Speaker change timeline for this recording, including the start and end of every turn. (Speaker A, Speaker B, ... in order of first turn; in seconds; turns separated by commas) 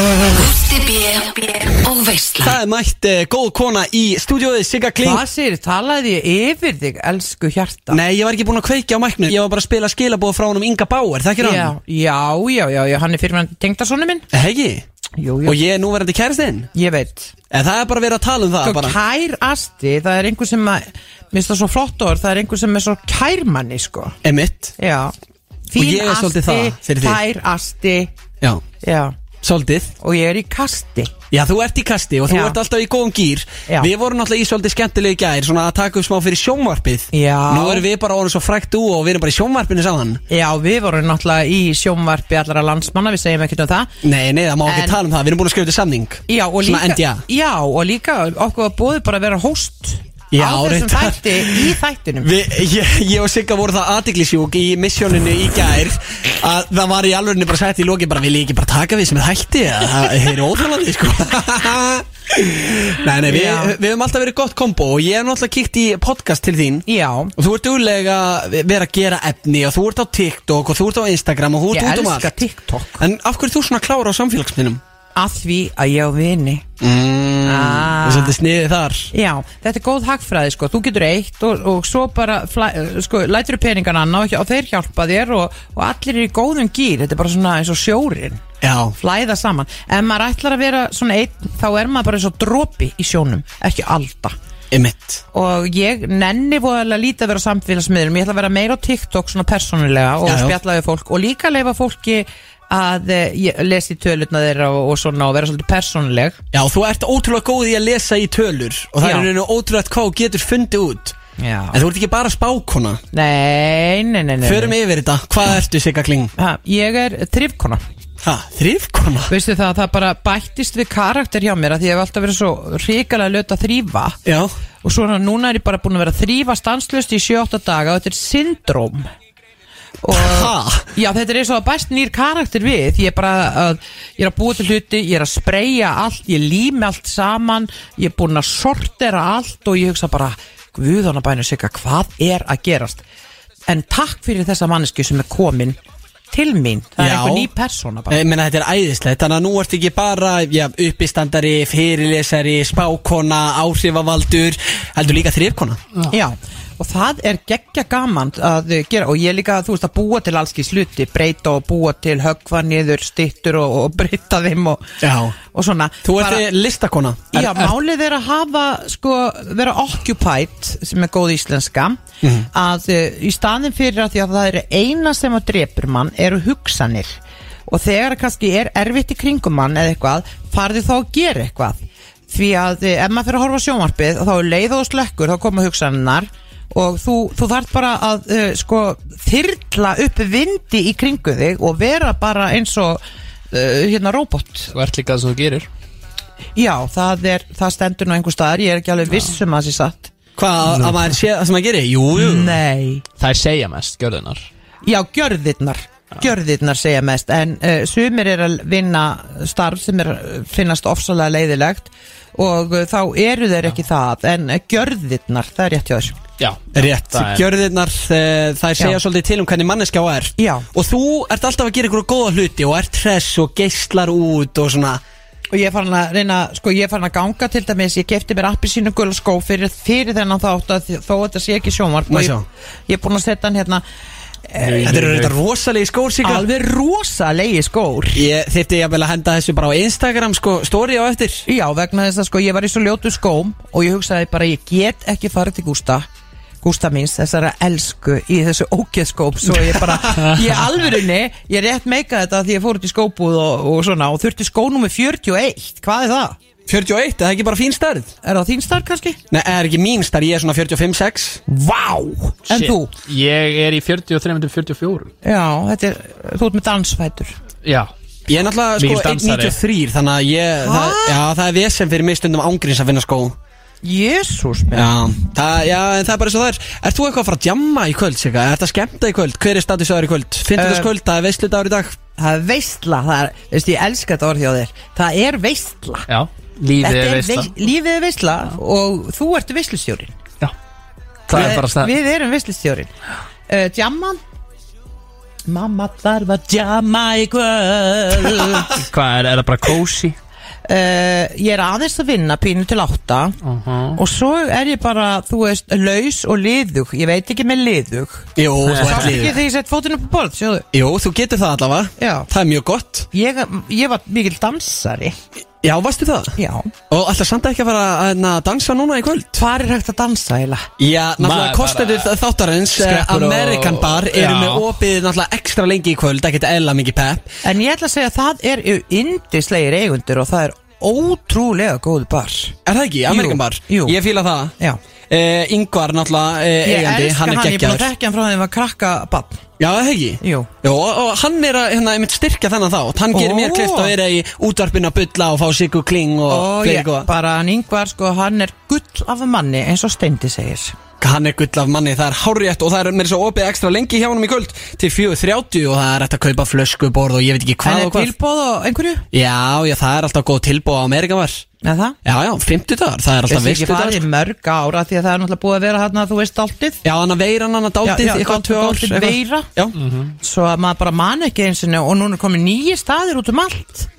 Speaker A: 0.2-2.6, Speaker B: 2.4-5.2, Speaker C: 5.0-8.0, Speaker B: 7.9-11.8, Speaker C: 11.4-14.3, Speaker B: 14.3-14.8, Speaker C: 15.2-15.6, Speaker B: 15.4-16.7, Speaker C: 16.7-17.3, Speaker B: 17.5-19.0, Speaker C: 18.6-24.2, Speaker B: 24.2-24.8, Speaker C: 24.8-25.1, Speaker C: 25.7-28.1, Speaker B: 25.8-27.2, Speaker C: 28.8-29.1, Speaker B: 29.4-29.9, Speaker C: 30.0-31.1, Speaker B: 31.3-40.2, Speaker C: 32.3-32.6, Speaker C: 37.1-37.9, Speaker C: 40.3-43.9, Speaker B: 44.0-47.2, Speaker C: 44.6-45.0, Speaker C: 46.3-52.3, Speaker B: 50.3-72.4, Speaker C: 63.2-63.8, Speaker C: 66.9-67.3, Speaker C: 71.7-73.0, Speaker B: 73.0-74.8, Speaker C: 75.2-76.6, Speaker B: 76.8-79.1, Speaker C: 77.5-78.4, Speaker C: 79.1-88.4, Speaker B: 88.6-89.0, Speaker C: 89.0-94.3, Speaker B: 94.7-95.2, Speaker C: 95.3-106.4, Speaker B: 100.2-100.6, Speaker B: 106.5-111.2, Speaker C: 109.0-109.3, Speaker C: 111.4-111.8, Speaker B: 111.7-113.0, Speaker C: 113.1-114.8, Speaker B: 114.4-116.3, Speaker C: 116.4-117.8, Speaker B: 118.2-119.3, Speaker C: 119.3-124.2, Speaker B: 124.2-124.5, Speaker C: 124.8-129.1, Speaker C: 130.0-143.1, Speaker B: 130.1-130.9, Speaker C: 143.7-145.8, Speaker C: 146.3-148.2, Speaker B: 147.0-147.5, Speaker B: 148.1-155.8, Speaker C: 156.1-166.5, Speaker B: 165.0-165.4, Speaker B: 166.0-167.6, Speaker C: 167.3-172.0, Speaker B: 172.2-172.5, Speaker C: 172.5-177.2, Speaker C: 177.7-194.7, Speaker D: 194.7-195.7, Speaker C: 196.6-200.1, Speaker B: 200.4-202.6, Speaker C: 202.2-203.1, Speaker D: 203.2-204.5, Speaker C: 204.8-216.2, Speaker D: 216.4-217.5, Speaker B: 216.7-225.0, Speaker C: 220.4-220.7, Speaker C: 225.5-232.4, Speaker B: 232.1-232.4, Speaker C: 232.9-233.8, Speaker C: 234.5-235.0, Speaker D: 234.6-235.3, Speaker B: 234.8-236.5, Speaker C: 236.2-238.2, Speaker B: 238.1-241.5, Speaker C: 241.5-246.1, Speaker C: 246.6-256.4, Speaker B: 249.6-250.0, Speaker B: 256.7-258.1, Speaker C: 258.2-259.2, Speaker B: 259.3-261.4, Speaker C: 261.5-262.9, Speaker D: 262.5-265.1, Speaker C: 265.2-267.3, Speaker D: 267.6-267.9, Speaker B: 268.3-273.4, Speaker D: 268.8-269.6, Speaker C: 270.6-271.2, Speaker C: 273.8-275.0, Speaker B: 274.7-282.0, Speaker C: 280.6-280.9, Speaker C: 282.2-286.1, Speaker D: 286.1-287.5, Speaker C: 286.8-290.1, Speaker D: 291.3-291.9, Speaker C: 291.3-292.9, Speaker C: 293.5-294.2, Speaker C: 295.5-298.8, Speaker D: 298.4-300.2, Speaker C: 300.7-303.4, Speaker D: 303.4-304.0, Speaker C: 303.9-310.7, Speaker B: 308.4-309.4, Speaker D: 308.6-309.1, Speaker B: 310.7-313.1, Speaker C: 312.0-312.3, Speaker C: 313.1-315.2, Speaker B: 315.6-316.4, Speaker C: 316.4-316.7, Speaker B: 316.9-319.4, Speaker C: 319.4-320.7, Speaker B: 320.8-327.3, Speaker D: 321.2-322.1, Speaker D: 322.7-324.7, Speaker C: 327.4-332.6, Speaker B: 332.7-334.5, Speaker C: 333.1-334.0, Speaker B: 335.1-337.9, Speaker C: 336.6-339.4, Speaker B: 339.6-347.1, Speaker C: 340.2-340.5, Speaker C: 343.1-343.9, Speaker C: 346.3-350.8, Speaker B: 351.0-358.1, Speaker C: 357.6-359.1, Speaker B: 359.1-361.4, Speaker C: 361.6-362.0, Speaker B: 362.1-364.1, Speaker C: 363.3-366.8, Speaker B: 366.8-369.8, Speaker C: 367.8-369.5, Speaker D: 369.8-370.1, Speaker C: 370.2-373.9